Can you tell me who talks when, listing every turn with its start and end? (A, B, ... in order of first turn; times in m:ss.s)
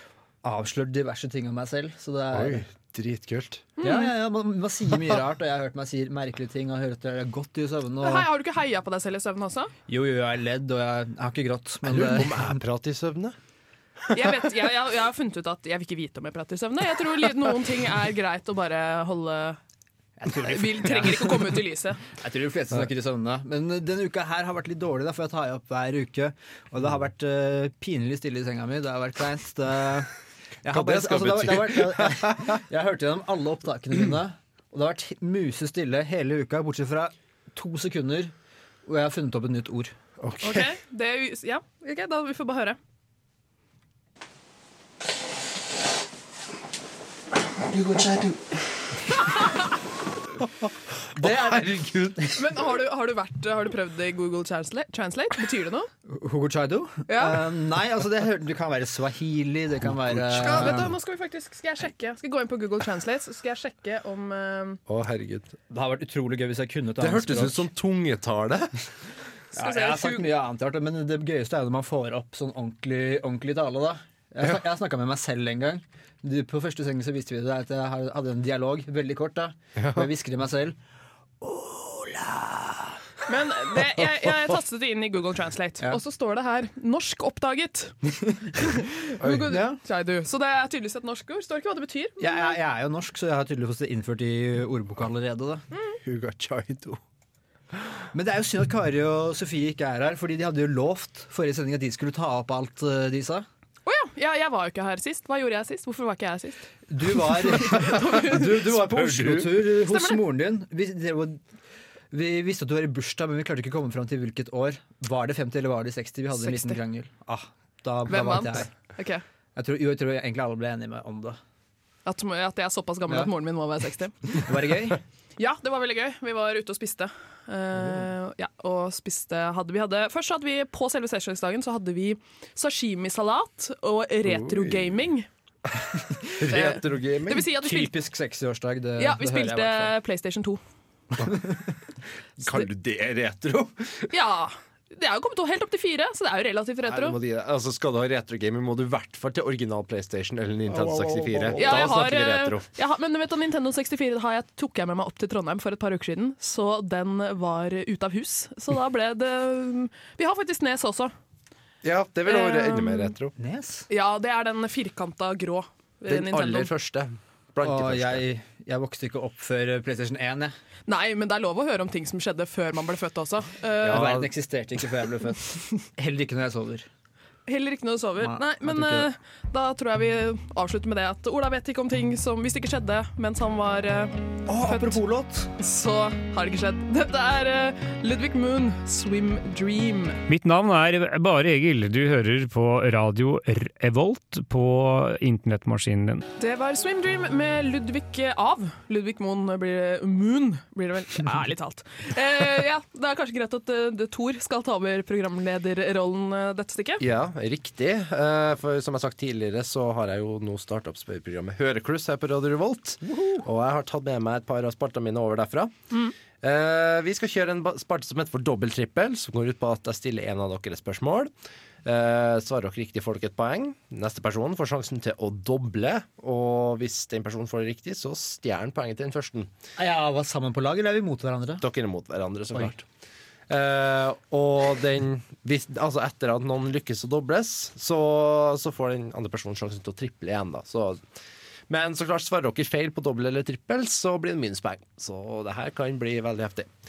0:00.4-0:02.6 A
0:02.3-0:03.7 B
0:03.8-0:04.1 C
0:03.8-0:08.3 A
0:08.0-0:09.7 C
0:09.9-0:12.6 A
0:11.9-0:13.4 B
0:14.1-0:19.6 C
0:20.2-0:30.1 A
0:20.4-0:22.0 C
0:30.6-0:38.3 A
0:30.7-0:32.6 B
0:38.8-0:39.9 A
0:40.2-0:40.7 B
0:40.4-0:42.8 C
0:47.7-0:48.4 B
0:50.6-0:52.4 B
0:51.2-0:52.3 A
0:52.4-0:55.9 C
0:56.1-1:00.9 A
0:57.1-0:57.4 C
1:00.1-1:00.9 B
1:00.4-1:04.8 C
1:04.9-1:05.6 B
1:05.7-1:07.6 A
1:07.0-1:08.8 B
1:09.5-1:10.3 C
1:09.5-1:20.8 A
1:19.8-1:20.1 B
1:21.4-1:23.0 A
1:23.3-1:28.0 C
1:28.2-1:28.5 A
1:28.5-1:32.6 C
1:29.2-1:29.5 B
1:29.4-1:29.8 A
1:32.2-1:35.6 A
1:36.0-1:37.0 B
1:38.1-1:43.5 A
1:43.8-1:48.7 C
1:46.9-1:51.4 A
1:48.7-1:49.7 B
1:49.9-1:50.2 C
1:52.1-1:58.7 A
1:56.4-1:56.8 C
1:58.1-1:59.2 C
1:59.6-2:01.4 A
2:02.1-2:04.2 C
2:04.3-2:05.0 A
2:05.4-2:15.3 C
2:14.3-2:15.0 B
2:16.4-2:17.5 B
2:16.4-2:17.9 C
2:17.5-2:20.0 A
2:19.0-2:20.6 C
2:21.2-2:21.6 A
2:22.4-2:24.1 B
2:24.1-2:27.2 C
2:26.9-2:32.7 B
2:30.9-2:31.8 A
2:31.6-2:41.1 C
2:41.8-2:43.3 B
2:42.3-2:43.1 C
2:43.4-2:43.9 A
2:43.9-2:46.7 C
2:46.1-2:48.2 B
2:47.6-2:50.6 A
2:50.9-2:54.1 C
2:53.8-2:54.3 B
2:53.9-2:56.9 A
2:57.5-3:05.0 C
2:58.2-2:59.1 A
3:04.5-3:05.5 A
3:05.6-3:10.2 C
3:10.3-3:16.2 D
3:16.4-3:27.0 C
3:27.0-3:35.7 B
3:33.1-3:33.4 A
3:36.4-3:41.3 B
3:41.8-3:49.5 B
3:49.8-3:51.6 A
3:51.6-3:52.8 B
3:53.5-4:01.0 B
4:01.7-4:06.7 B